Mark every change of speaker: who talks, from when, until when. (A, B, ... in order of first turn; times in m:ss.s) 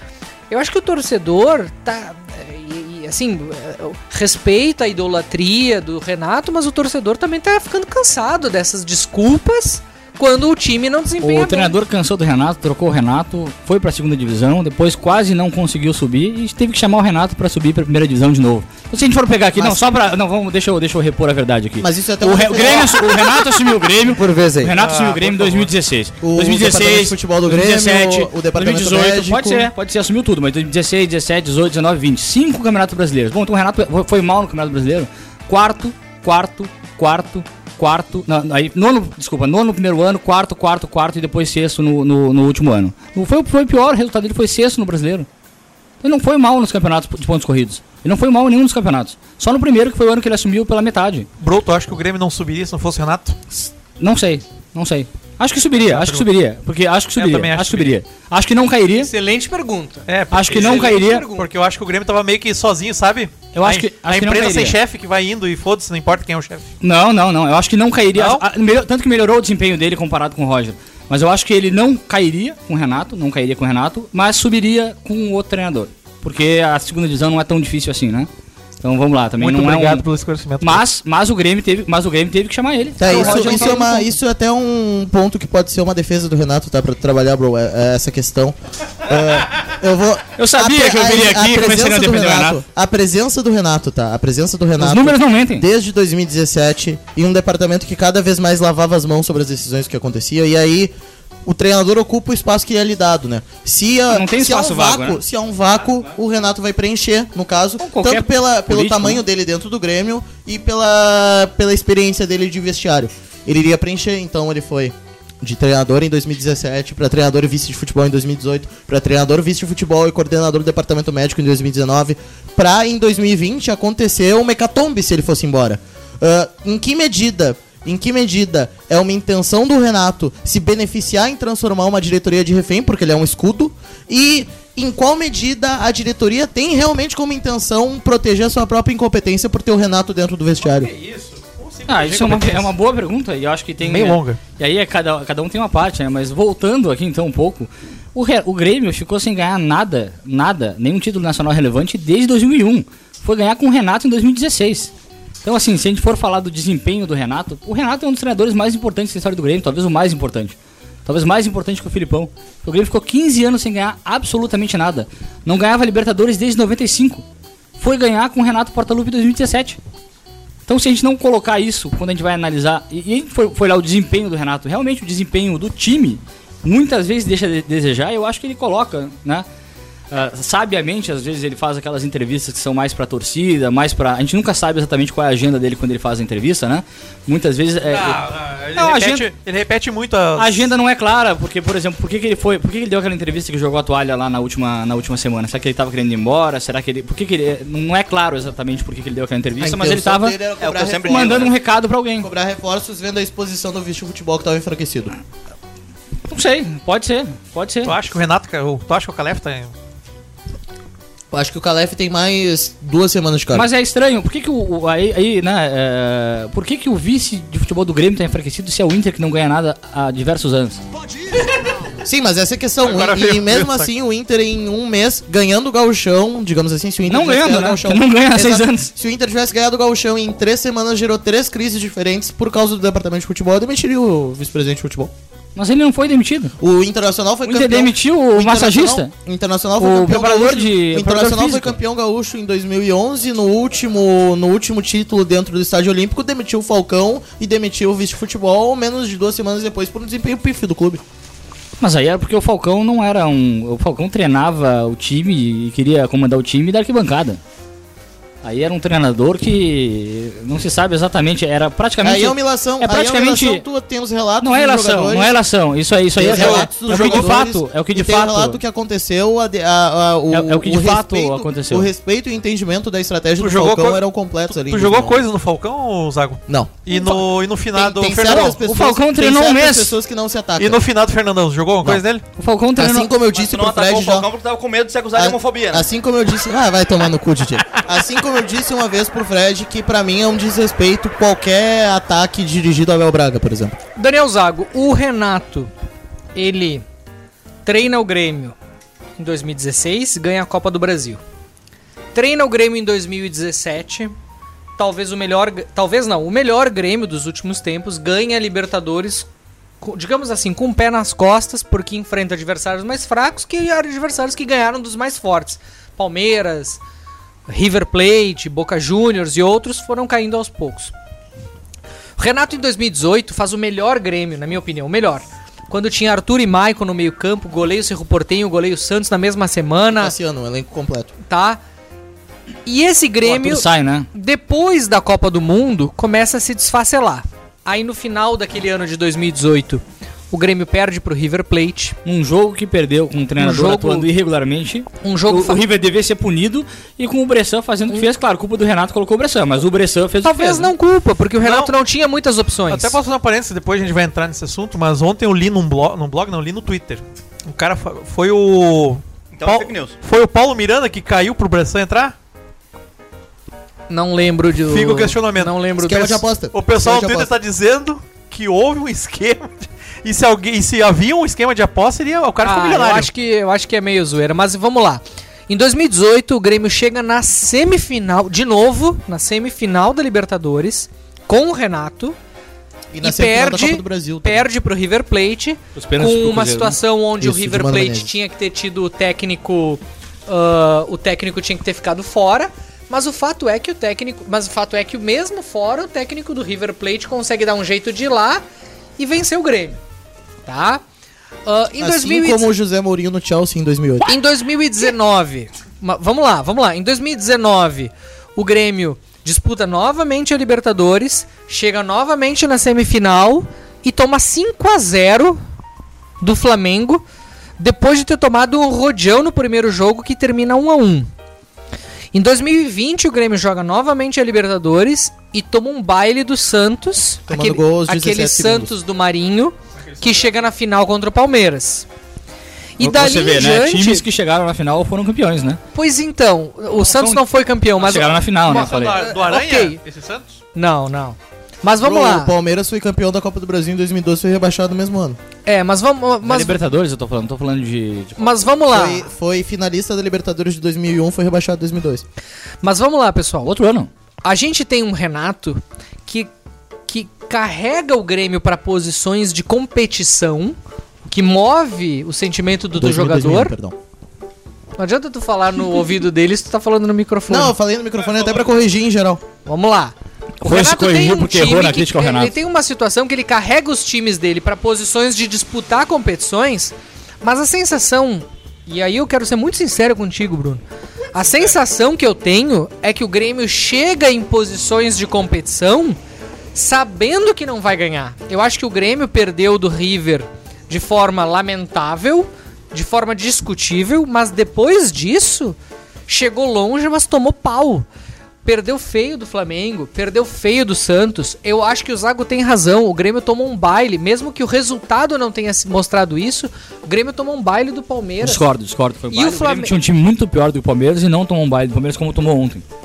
0:00.5-0:11.7 A
0:11.2-0:45.3 B
0:19.6-0:19.8 C
0:21.8-0:23.5 C
0:24.1-0:24.7 C
0:24.8-0:25.7 D
0:26.2-0:29.7 C
0:46.0-0:51.3 B
0:51.4-0:53.4 D
0:53.5-0:59.1 B
0:55.7-0:56.3 D
0:57.2-0:58.0 D
0:58.9-1:01.5 A
1:00.1-1:06.7 D
1:00.3-1:01.3 B
1:03.5-1:04.8 B
1:06.8-1:18.3 B
1:08.1-1:08.4 D
1:18.8-1:20.0 B
1:19.4-1:20.8 D
1:20.6-1:24.1 B
1:23.0-1:40.9 C
1:23.0-1:23.7 D
1:30.4-1:32.6 B
1:34.8-1:35.6 B
1:41.4-2:20.9 C
1:44.1-1:45.2 B
1:47.8-1:49.2 B
2:20.6-2:22.7 D
2:21.8-2:34.9 B
2:23.8-2:24.4 D
2:35.4-2:40.5 B
2:41.0-2:47.2 B
2:47.8-2:49.8 B
2:50.7-2:59.4 B
3:00.1-3:08.2 B
3:07.9-3:10.7 D
3:08.8-3:09.3 B
3:10.4-3:20.4 B
3:19.6-3:21.5 C
3:20.6-3:21.5 E
3:21.1-3:22.3 B
3:22.2-3:25.1 C
3:26.3-3:28.0 B
3:27.8-3:29.7 D
3:31.3-3:33.6 C
3:33.5-3:40.8 B
3:42.0-3:55.1 C
3:42.8-3:43.9 D
3:47.0-3:48.9 B
3:55.6-3:56.5 B
3:56.6-4:11.0 C
3:57.4-3:59.1 B
3:59.8-4:01.8 B
4:11.8-4:17.4 B
4:18.4-4:23.6 B
4:22.0-4:25.4 C
4:24.4-4:28.6 B
4:26.1-4:35.2 C
4:26.2-4:27.3 D
4:30.3-4:31.9 B
4:33.4-4:38.6 D
4:36.5-4:40.8 C
4:38.4-4:39.9 B
4:40.6-4:42.2 D
4:42.4-4:43.1 B
4:42.8-4:44.3 C
4:43.3-4:45.9 E
4:45.1-4:53.7 C
4:54.0-4:55.7 A
4:56.3-4:56.8 A
4:57.6-4:58.5 A
4:59.2-5:01.2 A
5:02.1-5:04.1 A
5:04.8-5:09.3 A
5:09.8-5:16.8 A
5:17.5-5:20.9 A
5:22.2-5:30.2 A
5:29.9-5:31.1 C
5:31.3-5:31.6 A
5:32.6-5:42.0 A
5:33.2-5:34.1 B
5:42.0-5:50.7 B
5:43.4-5:44.1 A
5:45.0-5:45.6 A
5:50.2-5:53.0 A
5:51.4-5:51.7 D
5:52.7-6:02.1 D
5:59.3-6:00.0 E
6:03.9-6:06.2 A
6:04.6-6:05.6 D
6:05.8-6:07.3 C
6:06.5-6:13.1 D
6:12.4-6:22.2 A
6:22.9-6:24.4 C
6:23.0-6:38.4 A
6:25.8-6:26.8 B
6:27.2-6:28.1 C
6:39.0-6:39.8 A
6:40.4-6:40.8 A
6:41.4-6:42.5 A
6:41.8-6:44.1 C
6:44.1-6:55.4 A
6:56.2-6:57.0 A
6:57.6-7:01.1 A
7:02.1-7:11.8 A
7:07.3-7:08.7 C
7:09.9-7:10.3 D
7:12.8-7:14.0 A
7:12.8-7:15.6 B
7:15.7-7:18.2 A
7:16.8-7:17.2 B
7:17.8-7:19.0 B
7:18.0-7:20.4 D
7:18.8-7:19.8 A
7:20.5-7:22.3 A
7:21.8-7:25.2 C
7:25.4-7:26.6 A
7:26.2-7:28.4 B
7:28.2-7:29.0 A
7:28.7-7:32.0 C
7:32.6-7:33.5 A
7:33.4-7:33.9 B
7:34.2-7:36.3 A
7:36.9-7:43.5 A
7:42.8-7:43.7 C
7:44.8-7:47.5 A
7:47.3-7:49.2 C
7:49.4-8:00.6 A
7:50.4-7:52.3 B
8:01.1-8:06.0 A
8:06.5-8:15.6 A
8:16.1-8:17.9 A
8:18.4-8:28.4 A
8:28.2-8:32.6 B
8:29.1-8:29.7 A